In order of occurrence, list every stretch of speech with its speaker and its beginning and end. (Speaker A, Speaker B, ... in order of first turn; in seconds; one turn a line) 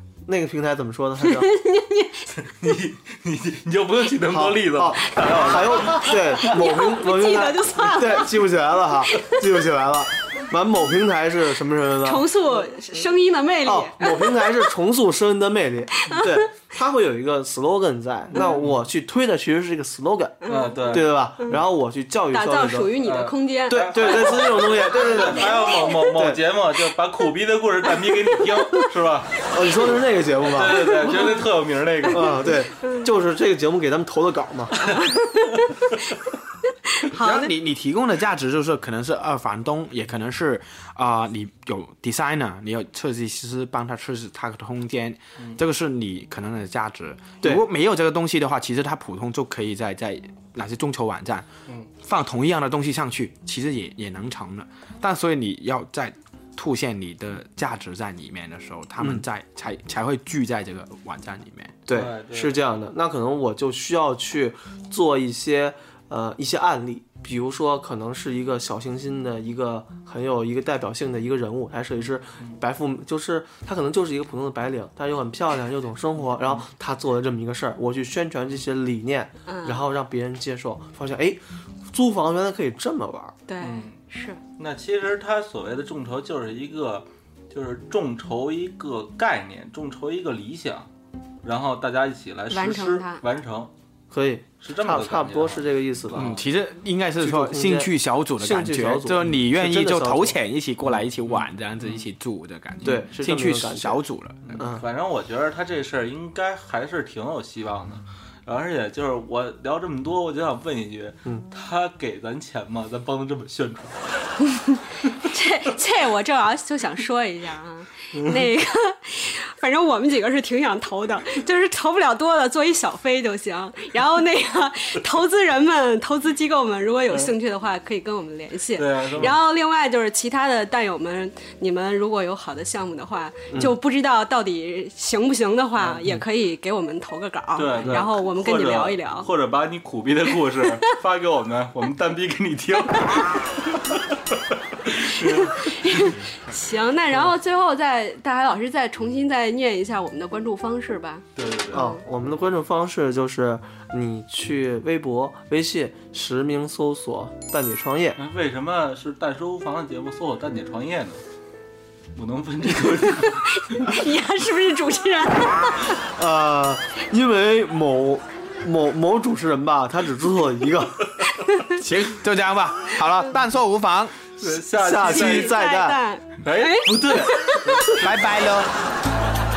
Speaker A: 0.2-1.5
Speaker B: 1.2-2.3
Speaker C: 2.4-6.5
Speaker A: 4.3-12.3
Speaker B: 6.0-8.4
Speaker B: 12.0-14.4
Speaker A: 13.6-22.9
Speaker B: 16.1-16.4
Speaker C: 18.3-18.8
Speaker B: 20.4-21.6
Speaker C: 20.5-21.1
Speaker B: 22.3-26.1
Speaker C: 23.0-32.5
Speaker A: 23.7-26.4
Speaker B: 28.1-28.9
Speaker A: 29.5-31.4
Speaker B: 30.7-31.5
Speaker B: 32.1-33.1
Speaker A: 32.1-35.0
Speaker B: 34.8-35.9
Speaker C: 34.8-35.1
Speaker B: 36.8-37.5
Speaker D: 37.1-51.5
Speaker D: 52.0-61.8
Speaker A: 59.0-59.2
Speaker A: 61.9-83.3
Speaker C: 61.9-62.6
Speaker C: 76.3-76.7
Speaker B: 79.5-79.8
Speaker B: 83.5-84.4
Speaker C: 83.6-84.0
Speaker C: 84.6-90.9
Speaker C: 91.4-93.7
Speaker B: 92.5-93.2
Speaker A: 94.1-96.4
Speaker C: 94.6-96.3
Speaker D: 96.1-104.6
Speaker A: 97.2-100.4
Speaker C: 100.8-102.0
Speaker A: 102.8-104.0
Speaker C: 104.4-114.1
Speaker A: 104.5-104.9
Speaker B: 114.4-139.3
Speaker C: 128.8-129.3
Speaker C: 135.8-136.1
Speaker C: 137.6-146.2
Speaker A: 137.8-138.1
Speaker B: 145.1-152.0
Speaker C: 151.3-151.9
Speaker A: 151.7-158.2
Speaker C: 158.2-161.2
Speaker C: 162.1-163.9
Speaker B: 163.0-166.0
Speaker A: 166.2-171.2
Speaker B: 171.3-171.8
Speaker D: 171.7-174.2
Speaker C: 174.4-175.6
Speaker A: 174.5-176.0
Speaker B: 175.0-177.8
Speaker C: 176.4-178.1
Speaker A: 177.0-177.3
Speaker D: 177.9-178.7